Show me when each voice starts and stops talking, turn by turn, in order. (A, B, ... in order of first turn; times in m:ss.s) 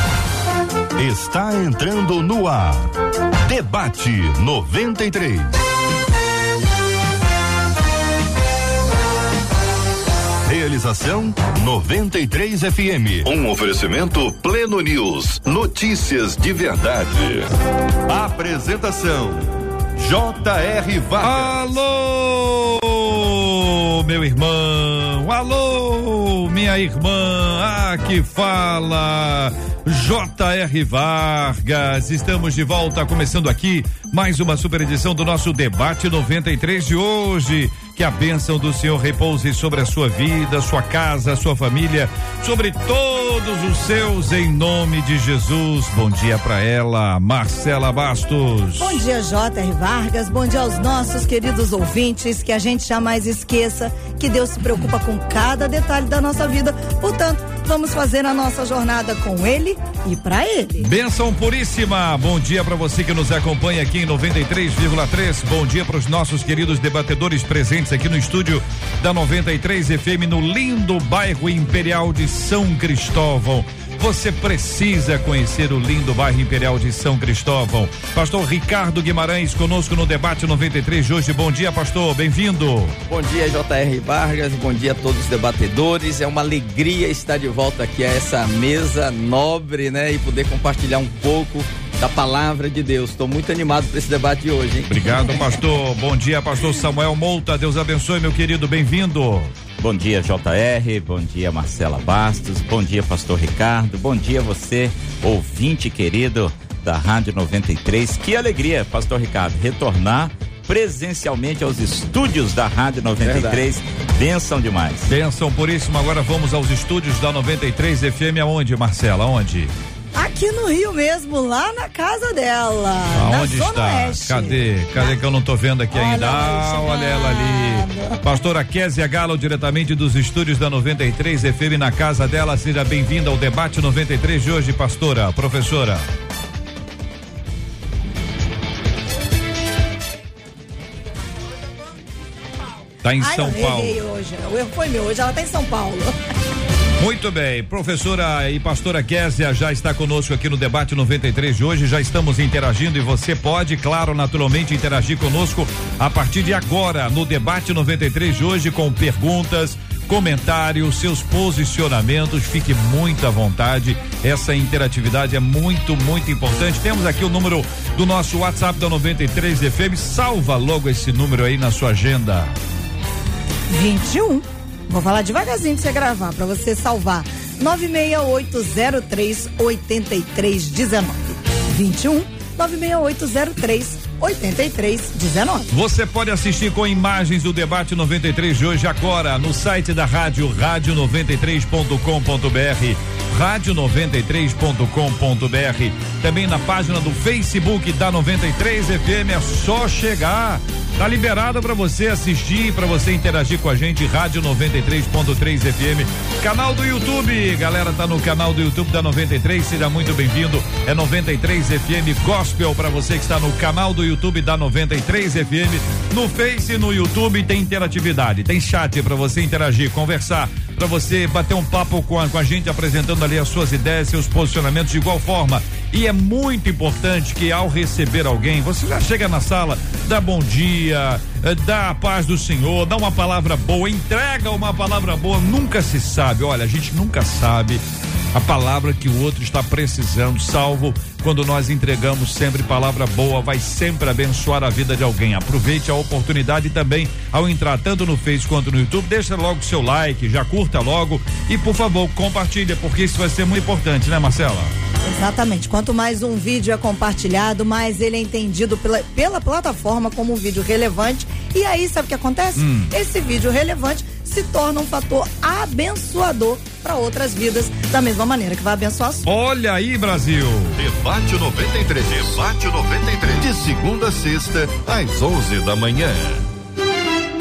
0:01.0-0:02.9 A
0:03.5-0:05.5 A
0:10.4-0:17.5 A
0:18.1-0:21.8 A
0:21.2-0:49.0 B
0:48.8-1:00.9 C
0:54.7-0:54.9 B
1:00.8-1:23.0 B
1:23.1-1:35.2 D
1:34.9-1:39.5 B
1:39.8-1:55.1 E
1:53.2-1:53.7 D
1:55.1-1:59.7 B
2:00.2-2:05.2 C
2:03.1-2:16.0 B
2:05.9-2:08.2 C
2:21.3-2:21.8 C
2:23.0-2:24.0 B
2:23.2-2:26.2 C
2:27.0-2:52.5 B
2:53.7-3:05.7 C
3:05.7-3:57.8 B
3:58.3-4:14.7 B
4:15.1-4:29.3 C
4:22.6-4:22.9 B
4:29.2-4:30.8 B
4:30.8-4:36.4 A